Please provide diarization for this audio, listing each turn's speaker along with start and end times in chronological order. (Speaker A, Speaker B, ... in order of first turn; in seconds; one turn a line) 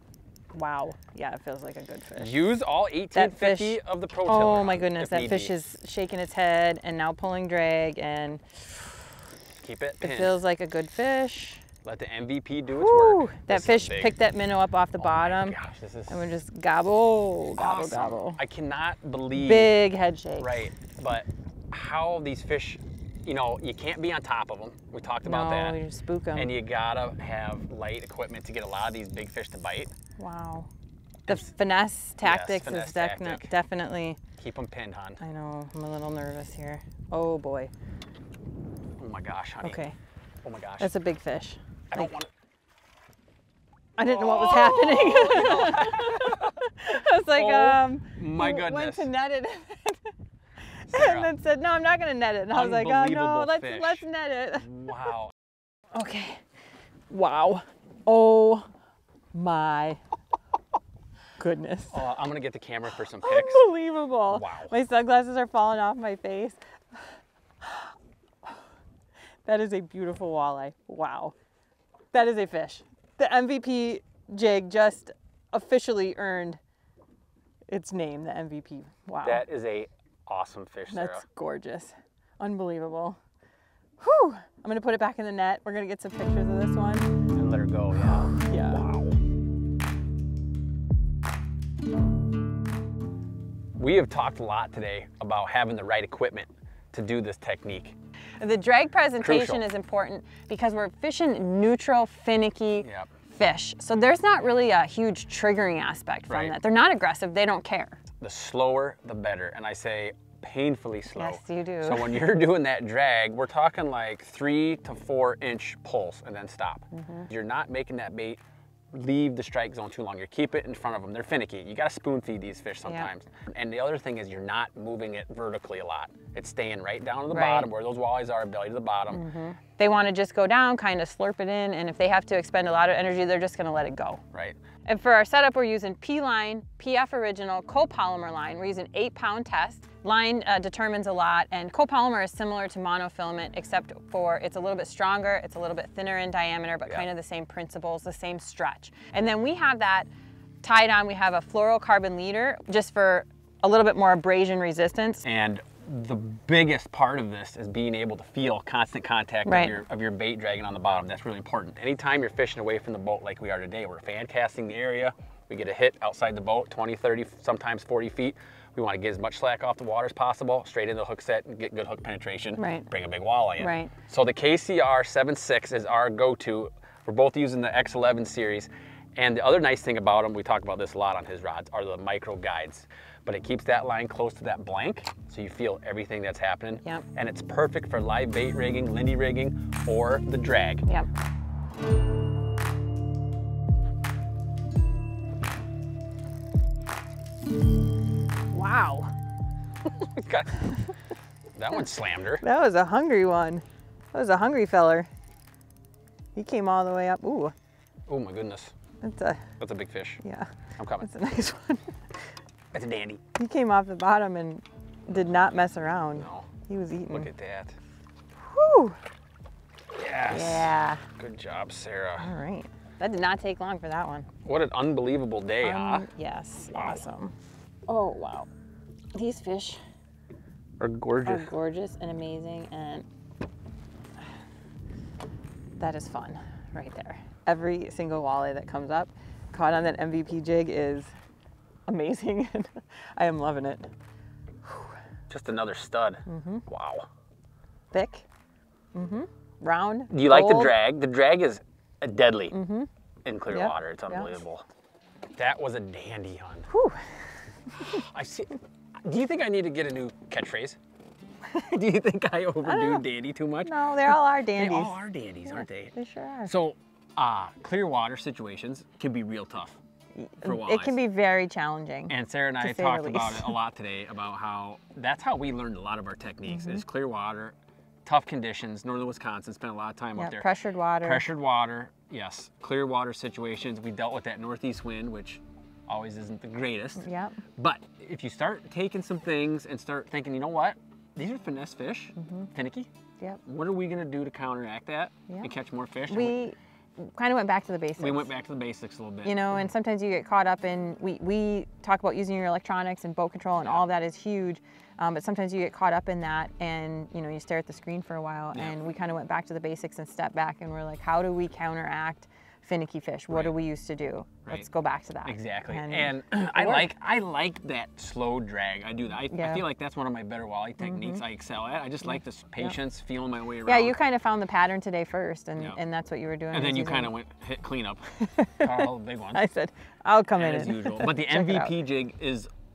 Speaker A: 0.5-2.4
Speaker B: 2.2-5.5
Speaker A: 3.1-9.0
Speaker B: 9.6-10.4
Speaker A: 10.0-11.6
Speaker B: 11.8-14.1
Speaker A: 12.7-15.6
Speaker B: 15.0-16.2
Speaker A: 16.1-18.4
Speaker B: 17.6-19.8
Speaker A: 19.3-20.7
Speaker B: 20.4-25.8
Speaker A: 25.2-26.5
Speaker B: 26.3-29.9
Speaker A: 30.2-30.7
Speaker A: 31.3-34.2
Speaker B: 32.2-33.5
Speaker B: 34.4-35.2
Speaker A: 35.2-37.7
Speaker B: 39.0-39.8
Speaker A: 39.6-40.0
Speaker B: 40.4-40.9
Speaker A: 40.8-42.1
Speaker B: 41.9-42.3
Speaker A: 44.0-50.1
Speaker B: 44.0-46.6
Speaker B: 47.3-49.1
Speaker A: 50.8-54.7
Speaker B: 50.9-51.3
Speaker B: 52.5-54.0
Speaker B: 54.6-55.3
Speaker A: 55.9-56.4
Speaker A: 57.1-58.7
Speaker A: 59.3-60.0
Speaker A: 61.4-62.0
Speaker B: 61.9-63.7
Speaker A: 63.2-67.9
Speaker B: 64.3-64.7
Speaker A: 69.4-71.3
Speaker A: 72.1-76.6
Speaker A: 77.7-79.4
Speaker B: 79.2-81.2
Speaker A: 80.9-83.2
Speaker A: 84.0-87.1
Speaker B: 87.3-89.2
Speaker A: 88.1-88.8
Speaker B: 93.8-97.9
Speaker A: 98.4-108.0
Speaker B: 99.2-99.7
Speaker B: 102.8-103.1
Speaker B: 106.3-106.5
Speaker B: 108.2-118.4
Speaker A: 111.1-112.2
Speaker A: 116.9-117.3
Speaker B: 118.9-129.2
Speaker A: 122.8-123.1
Speaker A: 127.3-127.7
Speaker A: 129.1-134.2
Speaker A: 134.8-150.1
Speaker A: 150.6-155.2
Speaker B: 155.2-190.8
Speaker A: 159.4-159.8
Speaker A: 172.6-172.9
Speaker A: 173.6-173.9
Speaker A: 198.5-199.1
Speaker B: 200.0-200.6
Speaker B: 201.5-202.4
Speaker A: 202.4-205.1
Speaker A: 206.3-207.5
Speaker B: 208.1-208.7
Speaker A: 209.0-209.4
Speaker B: 209.6-210.2
Speaker A: 210.2-210.5
Speaker B: 210.8-211.1
Speaker A: 211.0-212.2
Speaker B: 212.7-213.2
Speaker A: 213.3-217.3
Speaker B: 216.2-216.5
Speaker B: 217.1-217.8
Speaker A: 218.4-219.0
Speaker B: 220.0-222.3
Speaker A: 220.3-221.0
Speaker A: 222.2-224.3
Speaker B: 224.4-226.1
Speaker A: 225.6-227.3
Speaker B: 226.7-227.1
Speaker A: 227.9-228.5
Speaker A: 229.1-229.8
Speaker B: 230.8-231.5
Speaker A: 231.2-233.1
Speaker A: 235.8-241.1
Speaker A: 241.9-243.9
Speaker A: 244.6-244.9
Speaker B: 245.3-247.1
Speaker A: 246.3-246.6
Speaker A: 247.9-248.2
Speaker A: 248.9-250.8
Speaker B: 250.1-252.6
Speaker A: 252.5-252.9
Speaker B: 253.2-254.6
Speaker A: 253.5-254.4
Speaker B: 255.3-256.7
Speaker A: 256.7-257.0
Speaker B: 257.8-260.8
Speaker B: 261.5-265.9
Speaker A: 262.6-263.1
Speaker A: 263.6-266.5
Speaker B: 266.4-269.8
Speaker A: 270.1-273.6
Speaker B: 270.4-271.0
Speaker B: 272.1-280.5
Speaker A: 276.4-276.8
Speaker A: 280.1-281.2
Speaker B: 281.0-287.0
Speaker A: 287.0-287.4
Speaker B: 287.6-292.9
Speaker A: 292.1-292.5
Speaker B: 293.4-296.4
Speaker A: 296.1-298.3
Speaker B: 298.0-299.6
Speaker A: 299.2-316.9
Speaker B: 313.3-313.6
Speaker B: 315.2-324.0
Speaker A: 319.3-319.6
Speaker A: 320.8-321.2
Speaker A: 322.0-322.7
Speaker A: 323.6-327.1
Speaker B: 326.5-328.1
Speaker A: 328.3-331.7
Speaker B: 328.6-329.4
Speaker B: 330.4-332.5